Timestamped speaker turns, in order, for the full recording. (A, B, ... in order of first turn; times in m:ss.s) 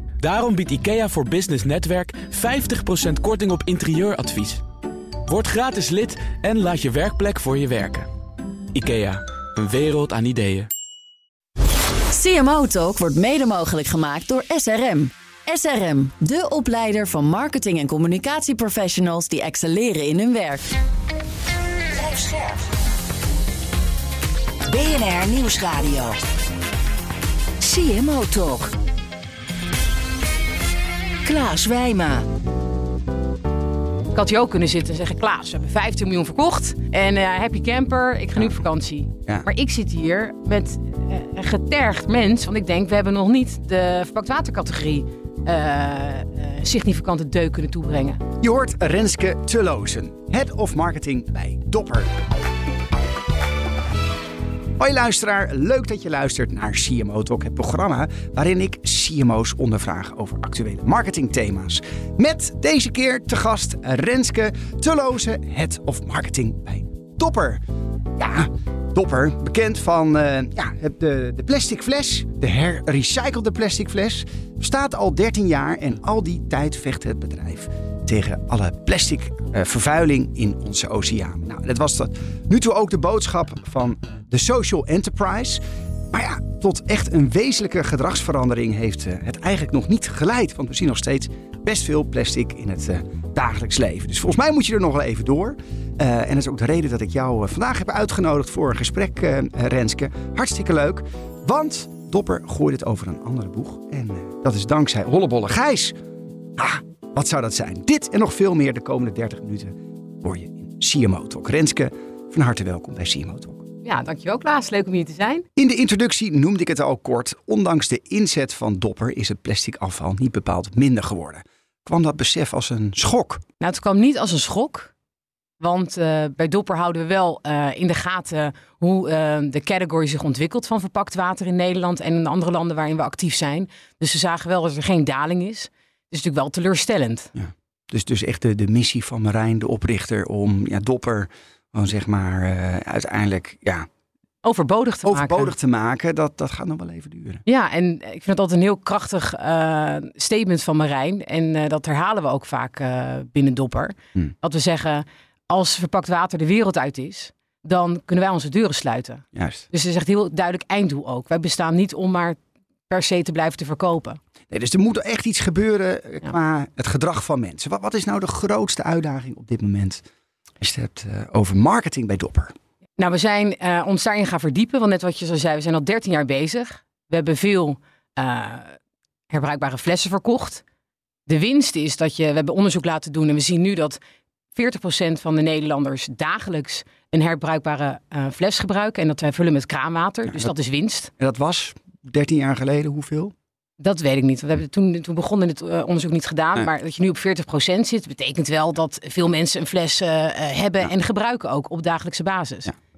0:00.2-0:04.6 A
0:05.3-0:08.1 A
0:08.7-0:10.7 A
0:12.1-0:20.6 B
0:21.9-0:22.6 C
0:24.7-0:26.2 C
0:27.6-0:28.7 C
0:31.2-0:32.3 C
0:34.1-0:48.2 D
0:48.4-0:52.2 E
0:54.8-1:07.6 E
1:08.2-1:46.0 E
1:46.6-1:53.7 E
1:53.8-1:55.4 D
1:55.6-2:03.4 E
2:03.6-2:04.9 D
2:05.6-2:17.3 D
2:17.3-2:23.9 E
2:24.4-2:25.5 D
2:25.0-2:27.4 E
2:27.4-2:44.2 D
2:39.3-2:39.7 E
2:44.5-2:50.0 E
2:50.6-2:52.5 E
2:53.0-2:58.8 D
2:59.3-3:00.6 D
3:01.3-3:04.0 D
3:04.5-3:11.1 D
3:11.2-3:13.3 E
3:13.8-3:22.7 D